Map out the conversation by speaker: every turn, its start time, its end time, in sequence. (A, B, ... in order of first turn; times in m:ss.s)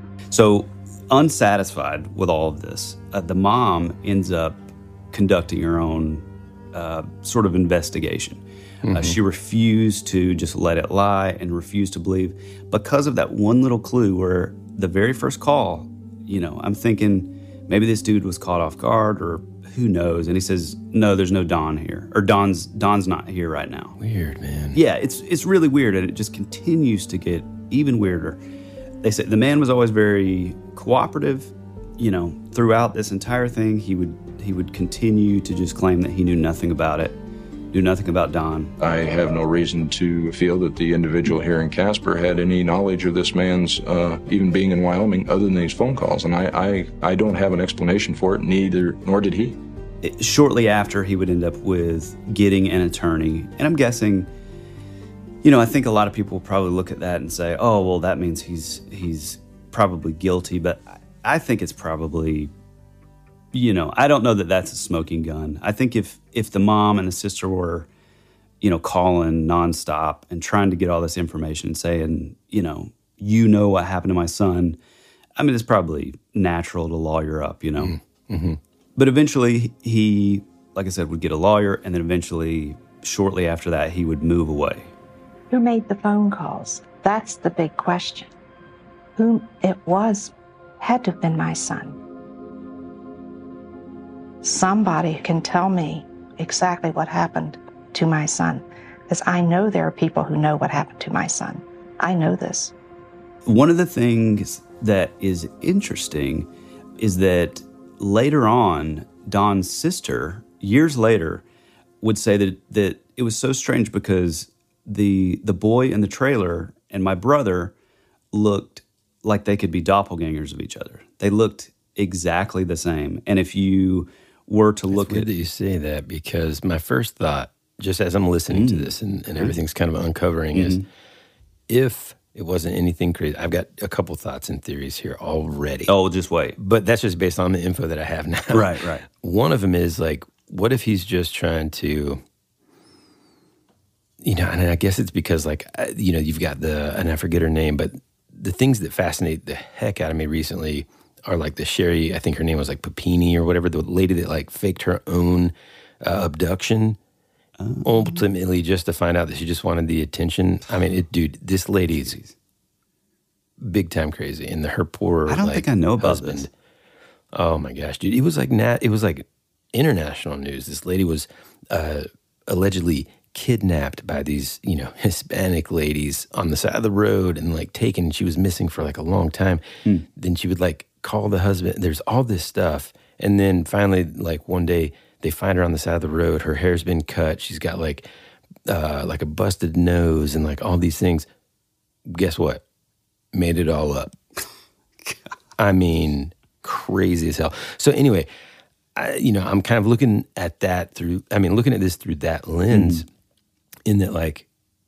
0:00.3-0:24.0 A
0:08.8-0:09.2 B
0:24.0-0:24.8 B
0:24.7-0:28.4 A
0:29.0-0:37.2 A
0:37.7-0:38.7 A
0:38.8-0:49.6 C
0:50.0-0:54.3 A
0:55.4-1:02.5 A
1:03.5-1:07.9 A
1:08.6-1:14.8 A
1:15.4-1:17.9 A
1:17.8-1:18.6 B
1:19.0-1:24.9 A
1:25.5-1:28.3 D
1:29.2-1:32.0 D
1:34.4-1:42.7 D
1:43.4-1:46.5 A
1:47.0-1:51.4 A
1:52.0-1:57.7 A
1:58.3-2:05.3 A
2:04.9-2:10.8 B
2:08.5-2:09.6 A
2:10.5-2:10.9 A
2:11.7-2:15.9 B
2:15.9-2:16.6 A
2:16.6-2:22.2 B
2:18.5-2:19.0 A
2:24.2-2:37.0 B
2:37.6-2:38.1 A
2:37.8-2:42.2 B
2:42.0-2:42.3 A
2:43.6-2:46.5 B
2:45.3-2:46.5 A
2:47.3-2:59.6 B
3:00.1-3:08.1 B
3:08.6-3:11.3 B
3:12.1-3:12.6 B
3:13.3-3:14.2 B
3:15.6-3:18.3 B
3:18.9-3:23.0 B
3:22.7-3:23.0 A
3:23.8-3:24.5 B